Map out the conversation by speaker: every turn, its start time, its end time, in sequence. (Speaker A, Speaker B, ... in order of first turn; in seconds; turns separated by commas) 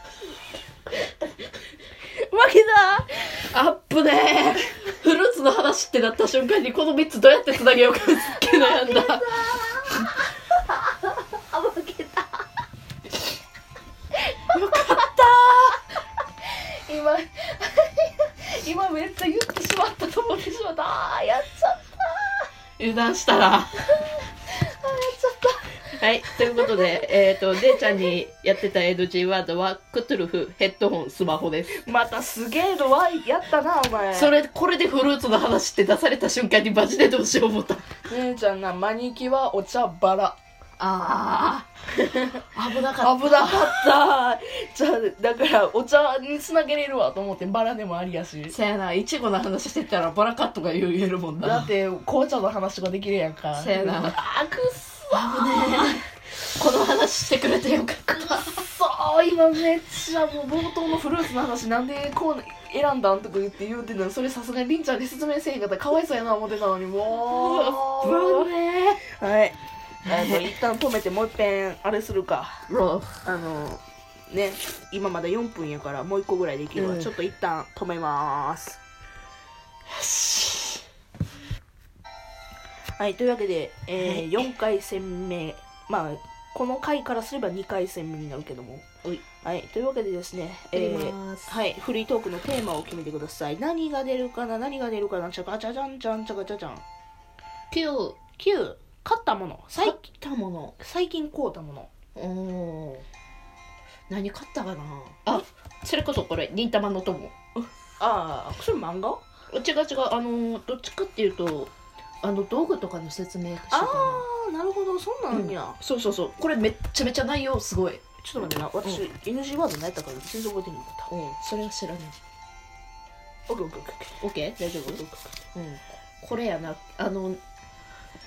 Speaker A: 2.2-3.5, Speaker B: 3.5-9.4, Speaker A: 8.3-12.4, Speaker B: 14.5-15.8, Speaker A: 14.8-15.7, Speaker A: 16.9-22.5, Speaker B: 22.8-23.9, Speaker A: 23.9-25.8, Speaker B: 25.9-31.8, Speaker A: 26.3-26.9, Speaker A: 31.7-34.3, Speaker B: 34.1-37.9, Speaker A: 38.1-40.4, Speaker B: 40.8-43.9, Speaker A: 43.0-48.5, Speaker B: 48.5-51.7, Speaker A: 51.4-55.9, Speaker B: 53.5-54.2, Speaker B: 55.1-58.6, Speaker A: 58.4-68.5, Speaker B: 67.3-69.0, Speaker A: 69.2-72.7, Speaker B: 70.1-70.4, Speaker B: 72.7-73.8, Speaker A: 73.2-73.7, Speaker A: 74.3-78.8, Speaker B: 76.8-77.1, Speaker A: 80.0-80.7, Speaker A: 83.0-88.8, Speaker B: 84.0-84.5, Speaker A: 89.4-96.8, Speaker B: 90.7-91.5, Speaker B: 97.7-98.2, Speaker A: 98.4-100.0, Speaker B: 99.8-100.7, Speaker A: 100.8-101.9, Speaker B: 102.1-103.0, Speaker B: 104.1-107.3, Speaker A: 107.6-109.2, Speaker B: 109.5-114.2, Speaker A: 113.7-115.8, Speaker B: 115.3-118.0, Speaker A: 118.2-121.1, Speaker B: 121.1-122.2, Speaker A: 123.5-124.2, Speaker B: 124.2-127.4, Speaker A: 124.8-125.3